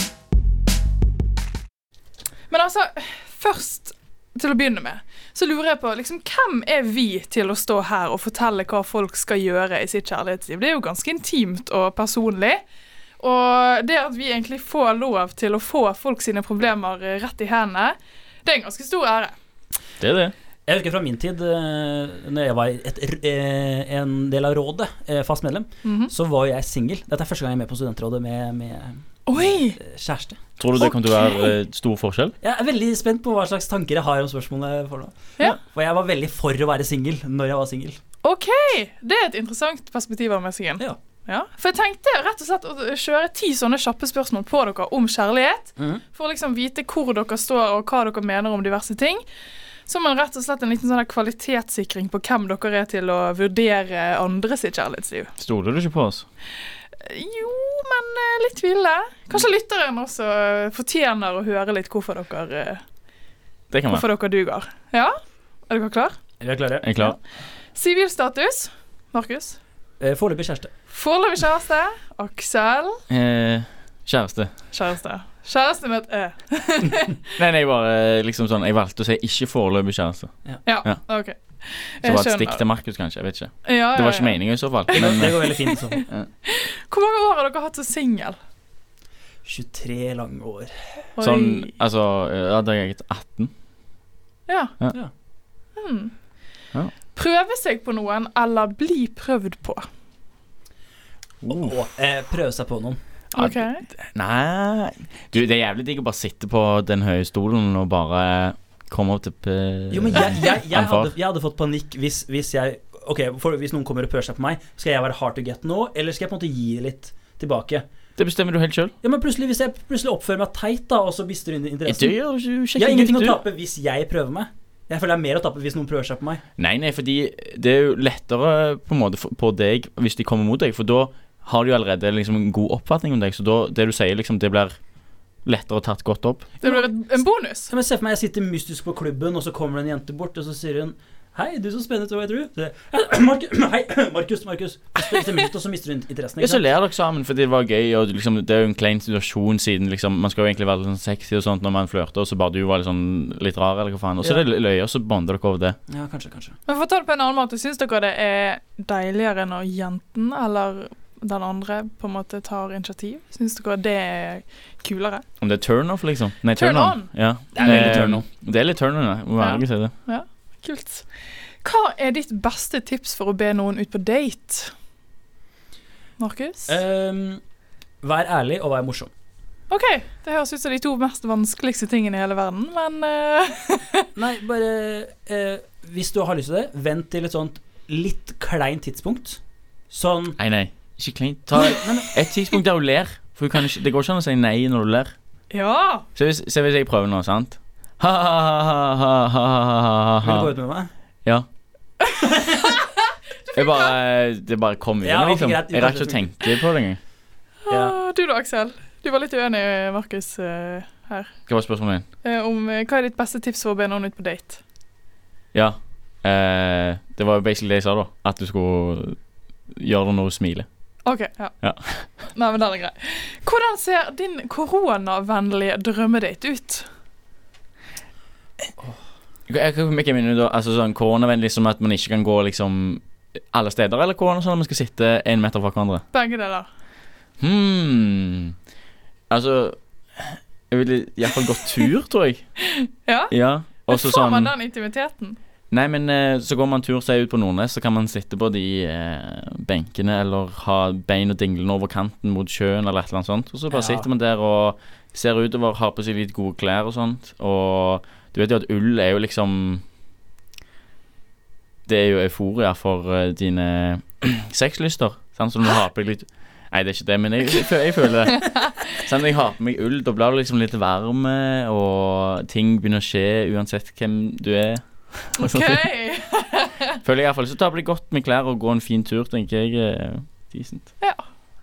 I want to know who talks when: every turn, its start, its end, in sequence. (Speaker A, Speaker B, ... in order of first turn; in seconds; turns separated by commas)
Speaker A: 2.5-12.6, Speaker A: 13.2-19.3, Speaker B: 20.0-20.3, Speaker C: 20.7-30.4, Speaker A: 25.8-26.1, Speaker A: 29.3-29.8, Speaker B: 30.6-32.3, Speaker A: 30.8-31.5, Speaker C: 32.4-38.0, Speaker A: 38.2-49.2, Speaker C: 45.8-46.0, Speaker A: 49.9-55.3, Speaker B: 55.4-56.2, Speaker A: 57.0-62.8, Speaker B: 63.7-64.0, Speaker A: 63.9-65.2, Speaker A: 65.7-66.2, Speaker C: 66.4-66.9, Speaker B: 66.8-67.2, Speaker A: 67.7-69.6, Speaker C: 70.0-70.7, Speaker A: 70.9-73.0, Speaker B: 73.1-74.5, Speaker A: 74.7-77.2, Speaker B: 77.4-80.3, Speaker A: 80.6-82.6, Speaker B: 82.0-86.3, Speaker A: 83.6-88.4, Speaker C: 84.9-86.0, Speaker C: 89.4-90.8, Speaker A: 91.2-91.7, Speaker B: 91.2-93.5, Speaker A: 94.5-94.7, Speaker A: 95.8-96.1, Speaker A: 97.1-99.9, Speaker B: 101.4-101.8, Speaker C: 101.5-103.0, Speaker A: 103.3-103.8, Speaker B: 103.3-111.1, Speaker C: 109.9-117.8, Speaker B: 118.2-118.9, Speaker C: 119.0-122.1, Speaker B: 121.9-123.4, Speaker C: 122.7-126.4, Speaker B: 126.6-134.8, Speaker B: 135.4-136.7, Speaker A: 136.6-137.7, Speaker C: 137.7-146.6, Speaker B: 146.4-155.8, Speaker C: 155.9-156.6, Speaker A: 156.7-165.2, Speaker B: 165.4-169.9, Speaker A: 166.5-167.1, Speaker C: 167.5-168.2, Speaker A: 169.4-171.1, Speaker A: 171.6-174.7, Speaker A: 176.2-176.7, Speaker C: 176.7-177.4, Speaker C: 178.0-179.1, Speaker A: 179.7-184.1, Speaker C: 184.2-190.4, Speaker B: 190.4-195.1, Speaker C: 191.5-192.2, Speaker A: 195.5-196.1, Speaker B: 196.1-200.5, Speaker C: 200.2-200.9, Speaker C: 202.2-202.6, Speaker A: 202.4-203.9, Speaker B: 203.6-207.0, Speaker C: 205.0-206.3, Speaker A: 207.6-211.3, Speaker C: 207.7-207.9, Speaker B: 211.5-212.0, Speaker A: 212.2-214.6, Speaker B: 215.5-219.2, Speaker B: 219.7-220.7, Speaker A: 221.0-221.5, Speaker B: 221.6-222.1, Speaker A: 222.3-226.9, Speaker B: 229.5-236.0, Speaker A: 236.1-236.7, Speaker B: 237.4-238.5, Speaker B: 239.3-242.4, Speaker A: 242.7-243.3, Speaker B: 243.3-244.5, Speaker A: 243.9-245.4, Speaker B: 245.7-259.8, Speaker C: 253.7-254.1, Speaker B: 261.9-275.8, Speaker A: 268.4-268.7, Speaker A: 275.4-277.0, Speaker B: 277.0-280.9